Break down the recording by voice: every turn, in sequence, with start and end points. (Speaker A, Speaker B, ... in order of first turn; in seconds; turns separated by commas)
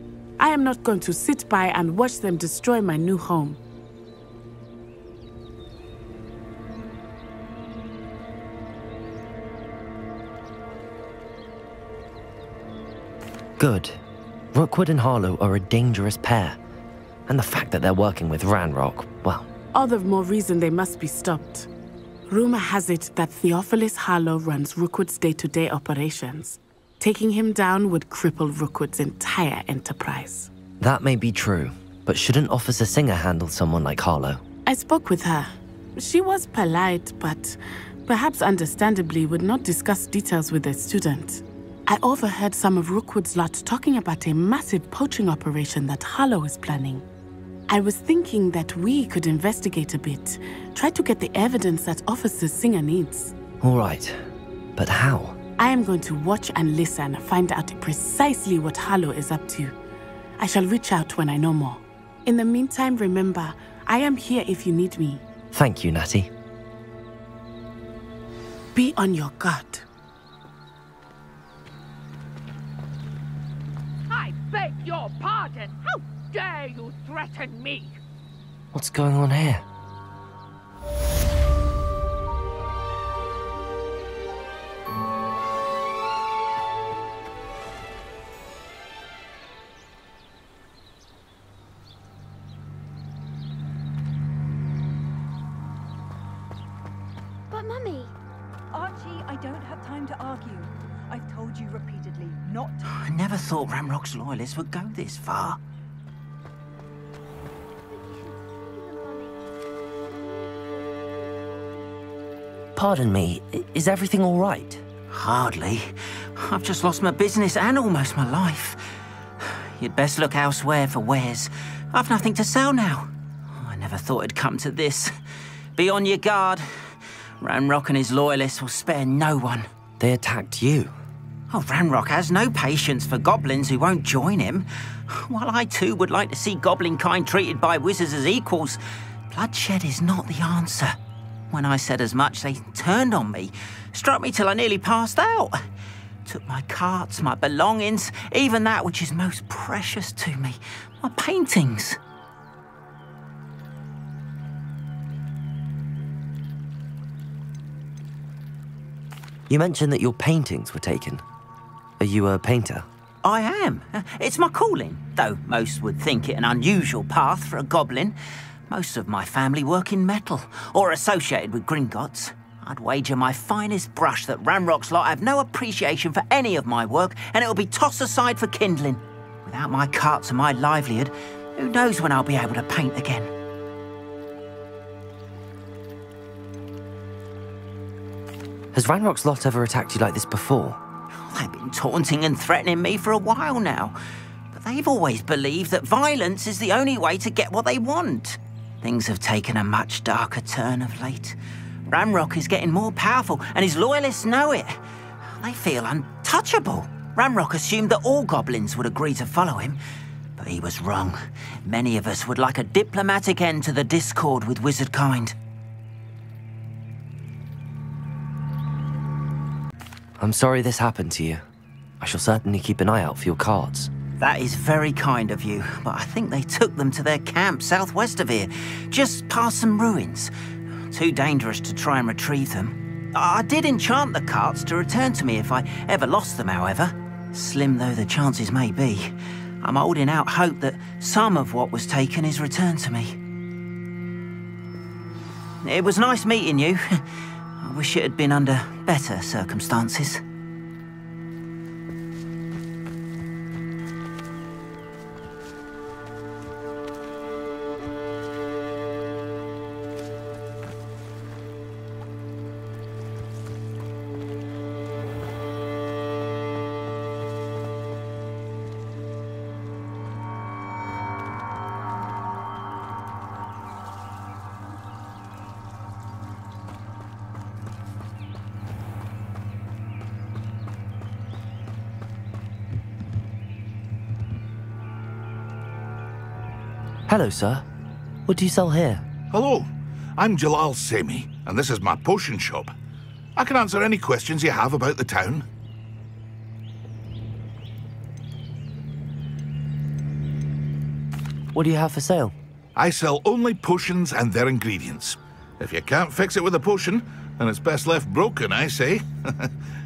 Speaker A: 0.4-3.6, Speaker B: 13.6-14.0, Speaker B: 14.5-16.6, Speaker B: 17.3-19.5, Speaker A: 19.7-21.7, Speaker A: 22.3-30.5, Speaker B: 30.8-34.4, Speaker A: 34.7-47.0, Speaker A: 47.7-53.3, Speaker B: 53.6-54.2, Speaker B: 54.8-55.4, Speaker A: 55.6-59.7, Speaker A: 60.4-65.2, Speaker B: 65.5-66.3, Speaker A: 68.7-69.8, Speaker C: 74.1-78.0, Speaker B: 78.7-79.6, Speaker D: 97.5-98.1, Speaker E: 98.7-102.8, Speaker F: 102.8-105.6, Speaker D: 107.9-109.3, Speaker B: 112.8-114.8, Speaker F: 115.1-118.8, Speaker F: 119.4-125.2, Speaker F: 125.8-129.7, Speaker B: 130.0-130.9, Speaker F: 131.5-138.8, Speaker F: 139.3-141.0, Speaker F: 141.5-145.6, Speaker F: 146.2-152.0, Speaker B: 159.5-161.2, Speaker B: 162.0-162.8, Speaker F: 163.2-168.1, Speaker F: 168.7-183.3, Speaker B: 188.7-190.8, Speaker F: 191.1-194.0, Speaker F: 194.5-201.4, Speaker F: 201.9-209.8, Speaker F: 210.4-215.3, Speaker B: 220.2-221.4, Speaker B: 222.0-223.9, Speaker F: 224.2-230.3, Speaker F: 230.9-243.2, Speaker F: 245.6-250.2, Speaker B: 287.1-287.6, Speaker B: 288.3-289.0, Speaker G: 289.3-292.7, Speaker G: 293.4-295.4, Speaker B: 301.5-302.3, Speaker G: 302.8-309.5